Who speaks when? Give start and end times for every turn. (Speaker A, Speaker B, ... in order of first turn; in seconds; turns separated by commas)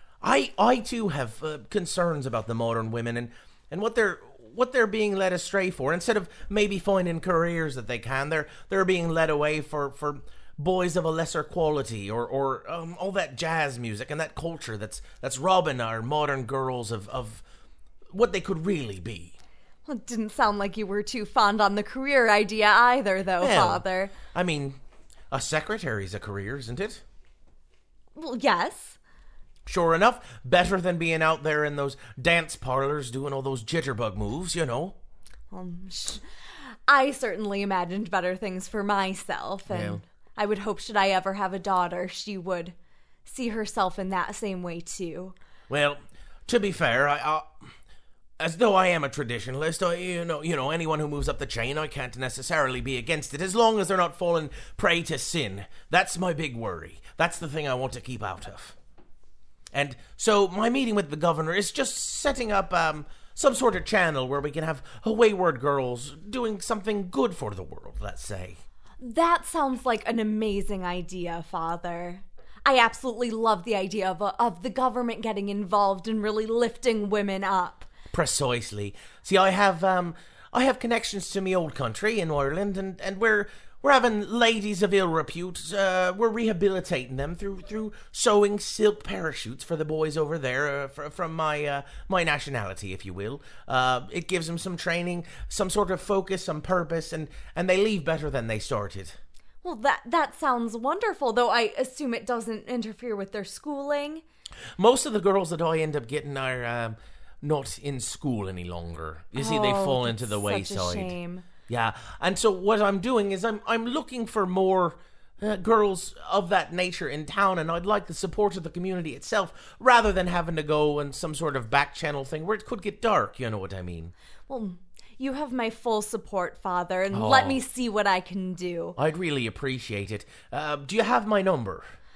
Speaker A: 0.2-17.4, Speaker A: 18.1-19.4, Speaker B: 19.9-24.1, Speaker A: 23.4-24.8, Speaker A: 25.3-27.0, Speaker B: 28.1-29.0, Speaker A: 29.7-35.0, Speaker B: 35.5-36.2, Speaker B: 36.9-42.8, Speaker A: 39.7-40.0, Speaker B: 43.3-45.4, Speaker A: 45.7-47.7, Speaker A: 48.4-58.8, Speaker A: 59.7-68.6, Speaker B: 69.0-77.9, Speaker A: 78.1-99.2, Speaker B: 99.6-104.2, Speaker A: 104.8-111.2, Speaker B: 109.3-111.5, Speaker A: 111.7-124.1, Speaker B: 124.5-129.0, Speaker A: 127.1-127.6, Speaker A: 129.0-131.9